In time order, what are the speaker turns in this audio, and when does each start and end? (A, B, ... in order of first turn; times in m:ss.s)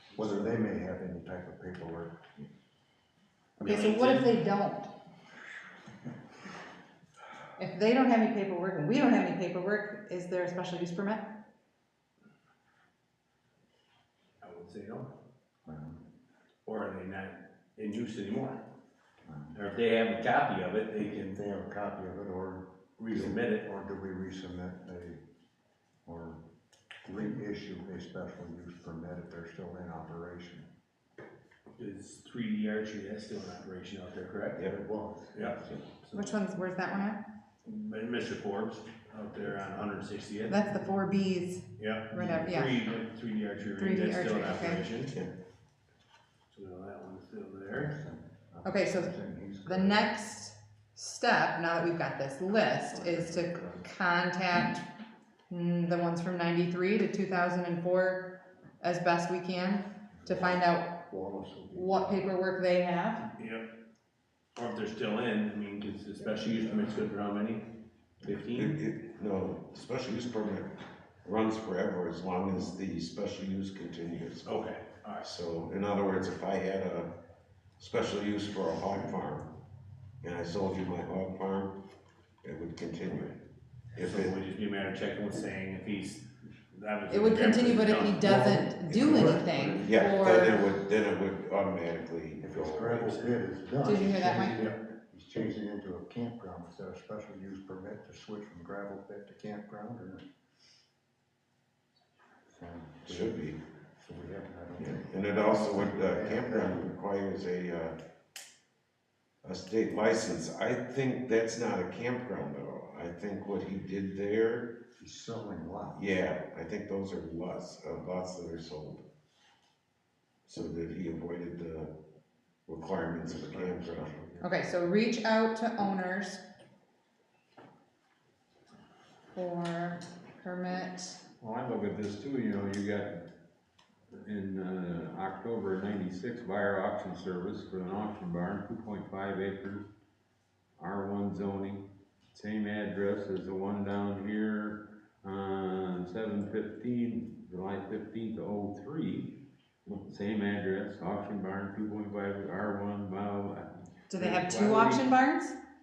0:00.1-0:00.5 A
0:00.2-0:02.2 B
0:03.6-0:04.4 A
0:03.6-0:04.9 C
0:07.6-0:11.3 C
0:14.4-0:15.1 A
0:15.6-0:16.0 B
0:16.6-0:18.6 A
0:19.2-0:19.6 B
0:19.5-0:21.4 A
0:21.1-0:25.2 B
0:23.0-0:23.7 A
0:26.0-0:26.4 B
0:27.0-0:30.7 B
0:31.8-0:34.6 A
0:34.6-0:34.8 D
0:34.7-0:35.7 B
0:35.4-0:36.3 A
0:36.1-0:37.2 C
0:37.6-0:40.6 A
0:40.5-0:42.8 C
0:41.8-0:45.1 A
0:43.8-0:44.8 C
0:46.5-0:47.9 A
0:47.7-0:50.1 B
0:48.6-0:49.1 C
0:49.7-0:54.9 C
0:52.9-0:53.9 B
0:55.5-1:01.0 C
1:00.2-1:02.2 B
1:01.7-1:03.3 C
1:03.4-1:03.7 A
1:04.6-1:07.7 A
1:08.2-1:08.8 A
1:08.3-1:14.6 D
1:14.4-1:15.3 A
1:15.2-1:17.1 D
1:17.8-1:19.5 D
1:20.2-1:21.8 D
1:22.4-1:23.4 D
1:24.0-1:24.4 D
1:24.0-1:28.6 A
1:27.1-1:30.6 C
1:28.3-1:30.8 B
1:28.9-1:33.1 D
1:32.4-1:40.2 B
1:33.8-1:34.6 C
1:42.5-1:43.4 B
1:43.1-1:43.6 D
1:44.0-1:46.9 B
1:44.8-1:48.0 D
1:49.4-1:54.8 D
1:55.0-1:56.0 B
1:56.0-1:59.0 D
2:00.5-2:01.9 D
2:02.7-2:04.3 D
2:03.2-2:04.5 B
2:04.4-2:06.4 C
2:09.3-2:11.2 C
2:11.4-2:13.3 E
2:14.1-2:19.9 E
2:20.8-2:29.4 E
2:30.1-2:35.1 E
2:34.1-2:35.6 C